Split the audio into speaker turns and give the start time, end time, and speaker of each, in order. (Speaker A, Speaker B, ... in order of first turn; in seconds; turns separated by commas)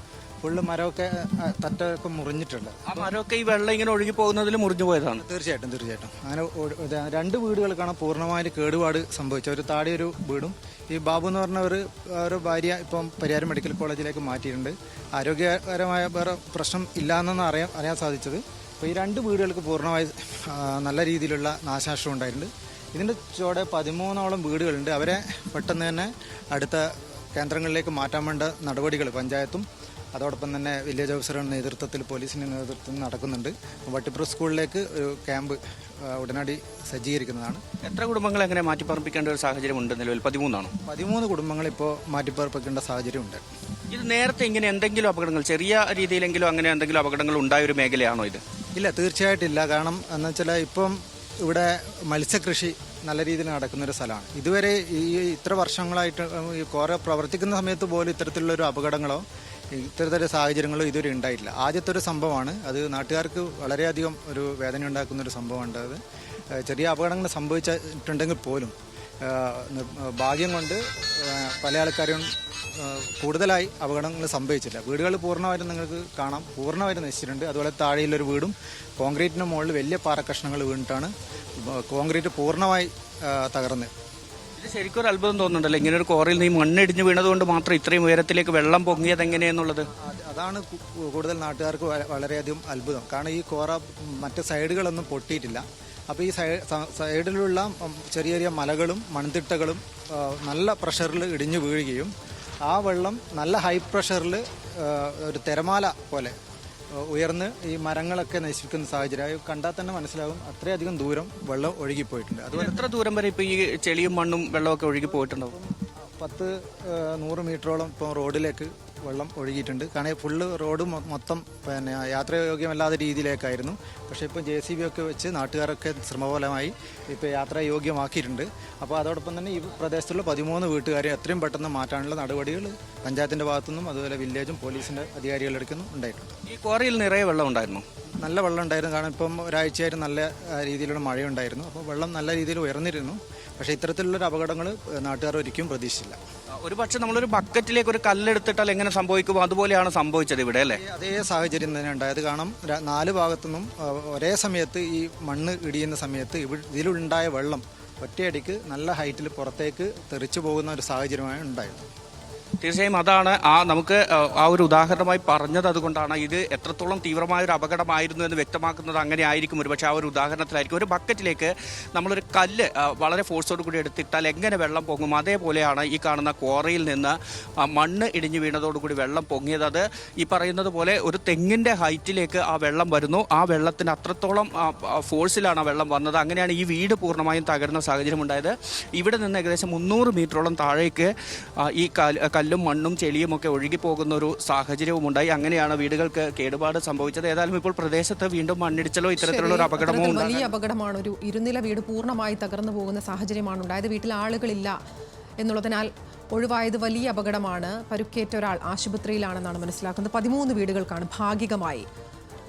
Speaker A: 0.4-3.1, Speaker B: 2.9-5.2, Speaker A: 5.2-37.6, Speaker B: 37.8-40.7, Speaker A: 40.9-43.4, Speaker B: 43.9-48.4, Speaker A: 48.7-66.0, Speaker A: 66.5-83.9, Speaker B: 84.6-89.9, Speaker A: 89.9-102.1, Speaker A: 102.7-106.3, Speaker A: 106.9-112.8, Speaker B: 112.5-115.5, Speaker A: 115.1-136.4, Speaker B: 136.5-137.8, Speaker A: 138.2-146.2, Speaker B: 146.6-150.8, Speaker A: 150.7-161.9, Speaker B: 162.6-200.5, Speaker C: 199.2-204.8, Speaker C: 205.4-211.8